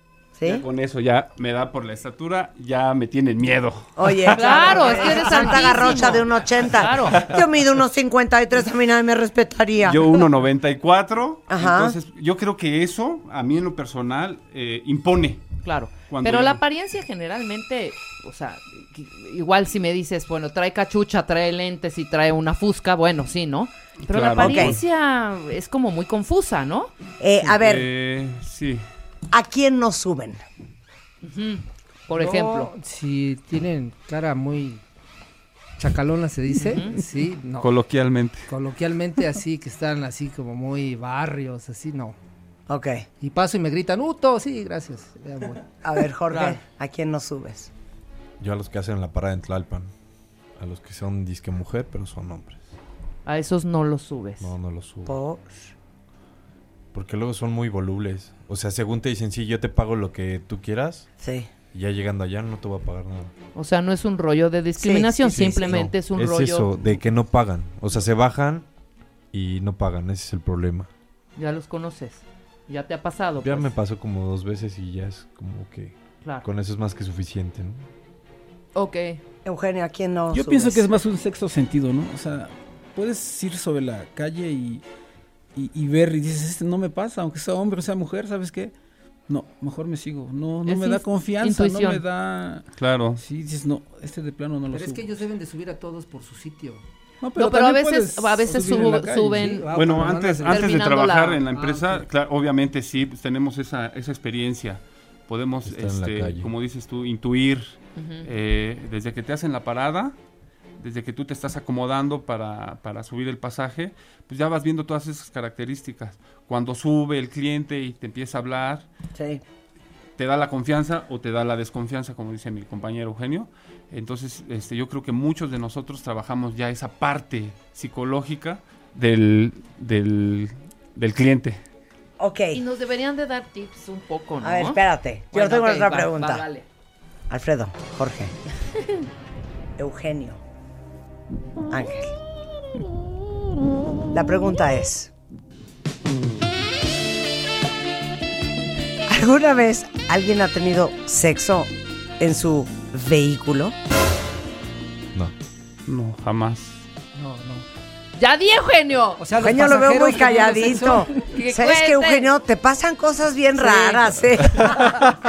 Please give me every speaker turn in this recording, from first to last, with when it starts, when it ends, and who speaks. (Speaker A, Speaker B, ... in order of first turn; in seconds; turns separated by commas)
Speaker A: 0.4-0.6, Speaker B: 0.4-5.9, Speaker A: 4.0-10.2, Speaker C: 4.3-7.2, Speaker B: 7.1-7.4, Speaker B: 9.8-15.5, Speaker A: 11.5-11.9, Speaker C: 15.6-26.9, Speaker B: 16.1-16.6, Speaker B: 24.0-24.8, Speaker A: 24.4-24.8, Speaker A: 27.2-27.9, Speaker B: 27.4-28.8, Speaker A: 29.3-30.4, Speaker C: 31.2-32.7, Speaker D: 32.1-34.8, Speaker D: 35.8-37.7, Speaker C: 36.6-37.0, Speaker B: 37.6-38.5, Speaker D: 38.5-42.1, Speaker A: 42.7-43.1, Speaker D: 43.2-45.6, Speaker A: 45.8-47.7, Speaker E: 48.4-49.9, Speaker E: 50.6-52.6, Speaker C: 53.2-54.5, Speaker E: 54.4-55.1, Speaker A: 55.0-55.7, Speaker E: 56.9-61.1, Speaker A: 61.2-61.5, Speaker E: 61.7-63.3, Speaker C: 63.5-66.7, Speaker A: 64.8-65.8, Speaker E: 65.3-68.7, Speaker E: 69.3-70.9, Speaker C: 71.3-73.7, Speaker E: 73.4-77.9, Speaker C: 78.7-79.2, Speaker A: 79.4-80.9, Speaker F: 80.3-84.8, Speaker F: 85.5-88.7, Speaker F: 89.3-92.7, Speaker C: 90.6-92.0, Speaker B: 92.8-93.2, Speaker F: 93.2-95.1, Speaker D: 94.7-96.8, Speaker F: 97.2-99.6, Speaker C: 97.3-99.7, Speaker D: 99.3-100.7, Speaker B: 99.7-110.2, Speaker C: 100.5-101.4, Speaker D: 101.5-102.0, Speaker E: 105.6-106.5, Speaker C: 108.0-108.3, Speaker B: 110.8-118.8, Speaker A: 119.1-119.4, Speaker B: 120.2-131.6, Speaker A: 132.2-132.6, Speaker C: 132.5-134.8, Speaker A: 134.4-136.4, Speaker C: 135.3-136.7, Speaker A: 137.3-138.3, Speaker A: 139.8-140.4, Speaker A: 141.7-142.2, Speaker A: 144.1-145.1, Speaker A: 149.1-153.7, Speaker B: 155.8-156.8, Speaker D: 157.1-157.7, Speaker C: 158.2-159.2, Speaker D: 159.2-161.3, Speaker A: 159.4-165.1, Speaker C: 161.2-162.3, Speaker C: 163.6-164.0